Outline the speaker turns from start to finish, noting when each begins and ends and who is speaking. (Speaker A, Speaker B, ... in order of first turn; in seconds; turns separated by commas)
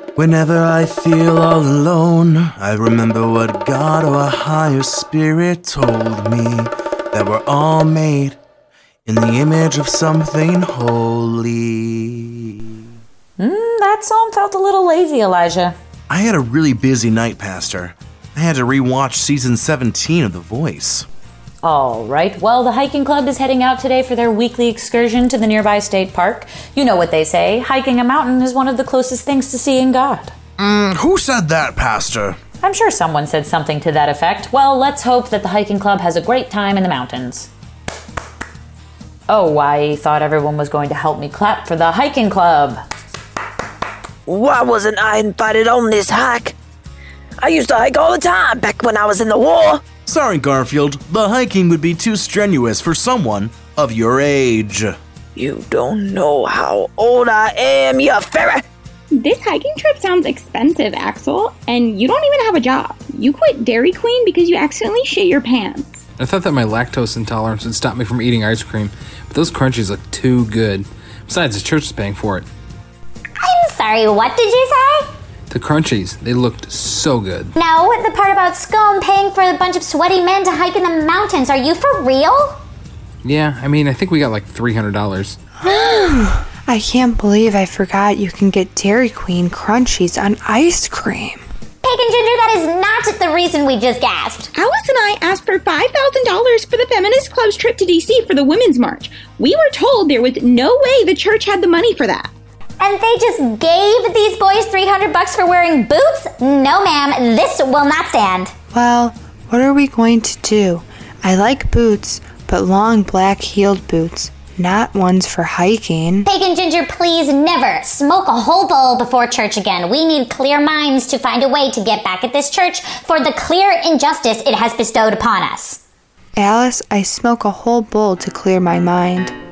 Speaker A: 0.1-8.4, Speaker A: 9.1-12.6, Speaker B: 13.4-15.8, Speaker A: 16.1-21.1, Speaker B: 21.6-30.3, Speaker A: 30.6-32.4, Speaker B: 32.6-37.5, Speaker B: 39.3-42.8, Speaker C: 44.2-46.5, Speaker C: 47.4-49.8, Speaker A: 50.0-55.0, Speaker C: 55.4-58.6, Speaker D: 59.1-66.0, Speaker E: 66.2-72.5, Speaker F: 73.4-75.1, Speaker E: 75.5-77.5, Speaker F: 77.5-82.6, Speaker E: 83.2-85.4, Speaker G: 85.6-91.4, Speaker F: 91.8-94.5, Speaker D: 94.5-102.3, Speaker F: 102.8-108.5, Speaker G: 108.7-116.2, Speaker F: 116.2-125.8, Speaker G: 126.3-129.3